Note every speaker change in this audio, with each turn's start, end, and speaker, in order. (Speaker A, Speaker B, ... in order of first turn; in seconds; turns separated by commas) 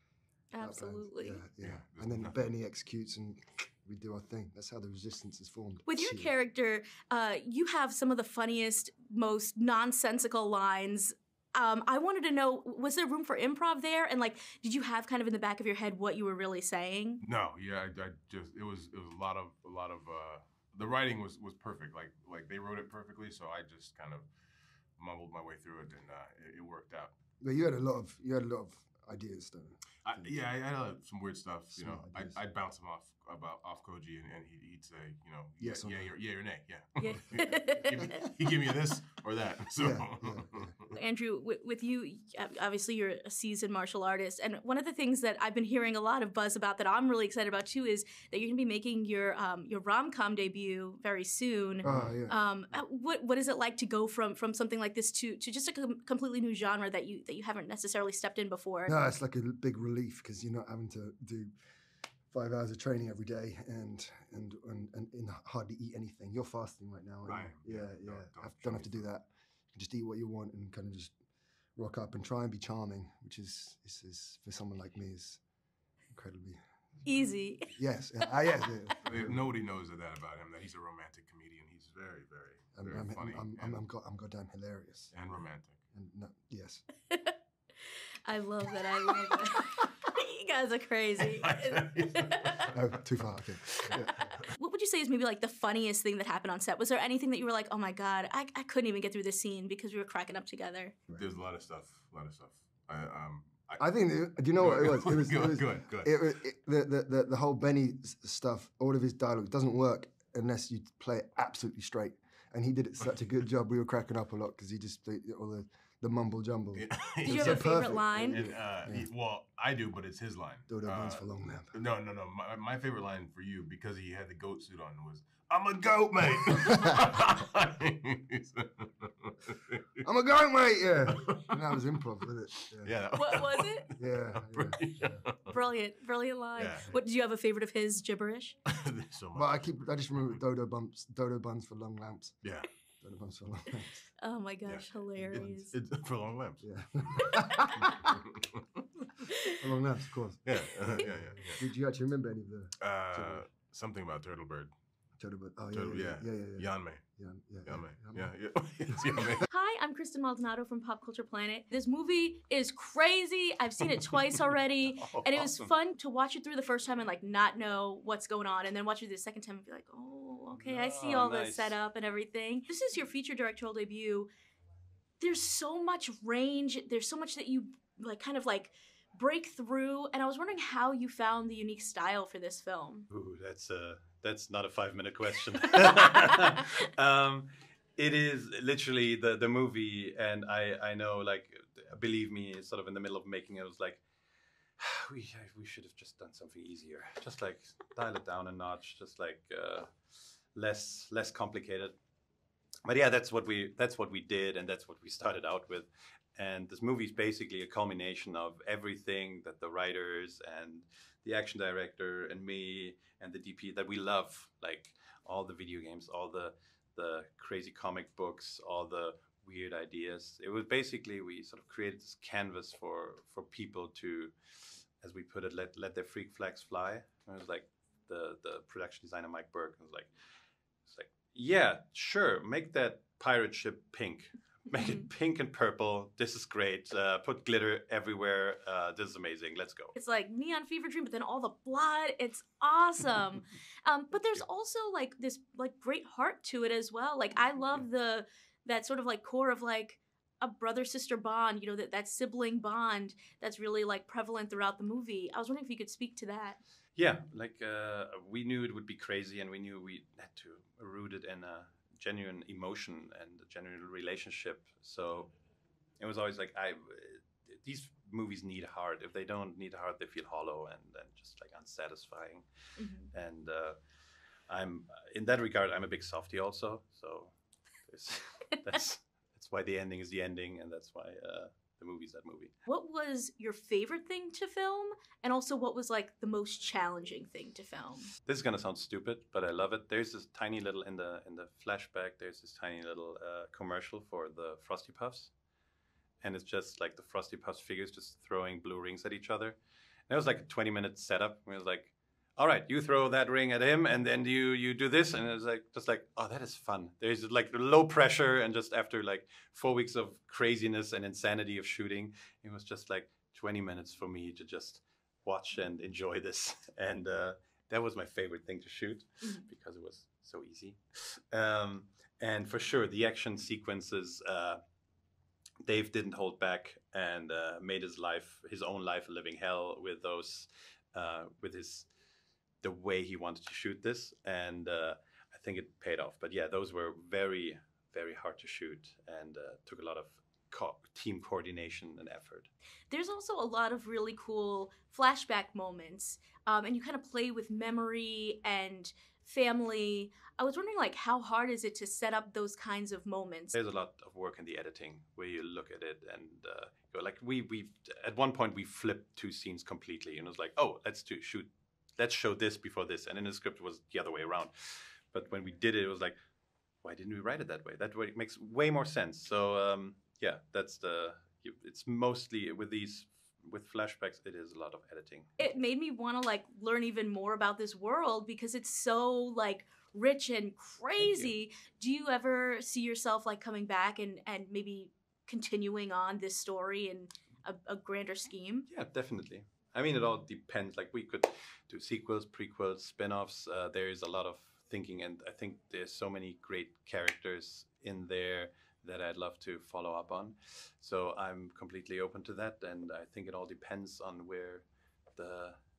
Speaker A: 0.5-1.4, Speaker B: 0.6-6.3, Speaker C: 1.6-2.5, Speaker A: 5.9-17.2, Speaker C: 17.2-24.3, Speaker C: 24.9-27.1, Speaker B: 27.4-30.5, Speaker C: 30.0-40.7, Speaker B: 31.7-32.4, Speaker B: 35.6-36.1, Speaker A: 37.0-38.2, Speaker B: 39.8-41.0, Speaker A: 40.9-58.9, Speaker B: 51.8-52.4, Speaker C: 51.9-52.1, Speaker B: 58.9-61.5, Speaker B: 62.3-71.1, Speaker C: 67.2-69.1, Speaker B: 71.8-75.4, Speaker B: 76.1-79.4, Speaker A: 77.0-77.7, Speaker C: 79.0-83.8, Speaker B: 82.7-85.3, Speaker C: 85.1-85.8, Speaker B: 85.9-86.8, Speaker A: 87.1-87.3, Speaker A: 88.2-92.7, Speaker C: 91.2-92.7, Speaker B: 92.7-94.2, Speaker C: 93.8-94.3, Speaker A: 94.1-101.0, Speaker C: 101.1-106.3, Speaker B: 103.8-119.1, Speaker C: 116.7-129.8, Speaker A: 117.2-118.4, Speaker B: 120.7-121.8, Speaker B: 130.0-133.0, Speaker C: 131.2-131.6, Speaker C: 132.8-135.6, Speaker A: 133.1-133.9, Speaker B: 134.0-135.3, Speaker A: 135.4-138.6, Speaker C: 136.5-137.0, Speaker C: 138.7-140.4, Speaker B: 139.3-142.4, Speaker C: 142.4-142.7, Speaker B: 143.0-144.1, Speaker A: 144.2-145.7, Speaker C: 144.6-148.6, Speaker B: 145.2-145.6, Speaker B: 146.6-147.9, Speaker B: 149.6-153.5, Speaker C: 150.4-151.6, Speaker C: 152.8-154.7, Speaker B: 155.2-159.4, Speaker C: 155.7-157.0, Speaker C: 157.6-159.4, Speaker A: 159.5-174.3, Speaker D: 164.9-165.7, Speaker D: 170.5-171.8, Speaker A: 175.2-183.1, Speaker D: 183.1-194.1, Speaker D: 194.7-202.0, Speaker D: 202.8-230.1, Speaker D: 230.8-239.9, Speaker A: 239.9-256.6, Speaker D: 256.9-265.4, Speaker D: 266.0-273.8, Speaker A: 272.8-273.1, Speaker D: 274.4-282.5, Speaker A: 282.6-288.1, Speaker D: 288.2-295.3, Speaker D: 296.2-324.6, Speaker D: 325.6-331.9, Speaker D: 332.6-342.5, Speaker A: 342.9-353.6, Speaker D: 353.5-366.1, Speaker D: 366.8-375.3, Speaker A: 375.4-388.7, Speaker D: 380.9-381.3, Speaker D: 388.7-405.6